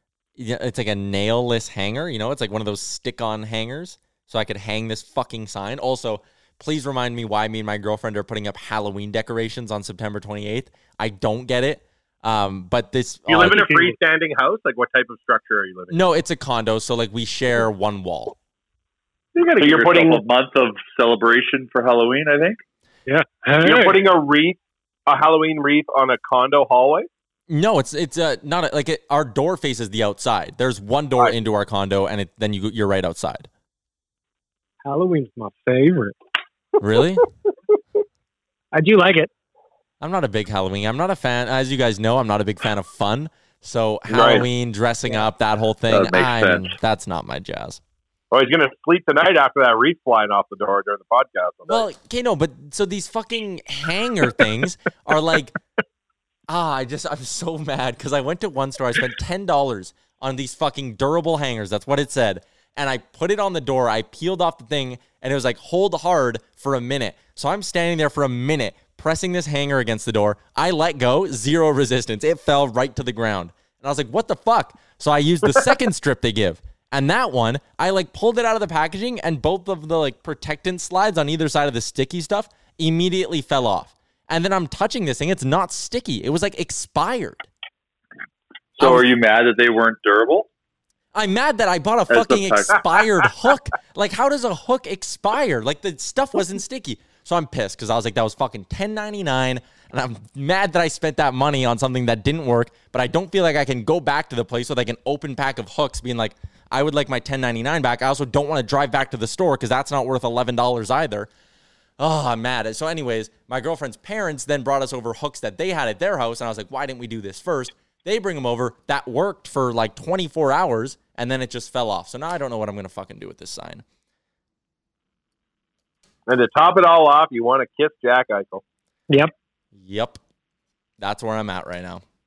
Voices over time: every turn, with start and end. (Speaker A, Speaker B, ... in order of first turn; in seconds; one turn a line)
Speaker A: 0.4-13.7
Speaker B: 13.3-16.0
Speaker C: 13.4-13.9
Speaker A: 15.9-18.4
Speaker B: 19.3-20.2
Speaker D: 19.6-22.6
Speaker C: 23.1-23.9
Speaker B: 23.6-27.1
Speaker A: 27.5-33.5
Speaker C: 34.8-36.1
Speaker A: 36.8-37.2
Speaker C: 38.7-39.3
Speaker A: 40.0-47.8
Speaker B: 44.1-44.4
Speaker D: 45.9-46.7
Speaker B: 48.3-51.8
Speaker A: 51.7-55.6
Speaker A: 56.5-87.5
Speaker D: 88.8-90.5
Speaker A: 88.8-89.1
Speaker A: 91.1-111.3
Speaker D: 92.1-92.8
Speaker A: 112.0-123.8
Speaker B: 126.3-128.6
Speaker A: 129.8-130.2
Speaker A: 131.0-132.0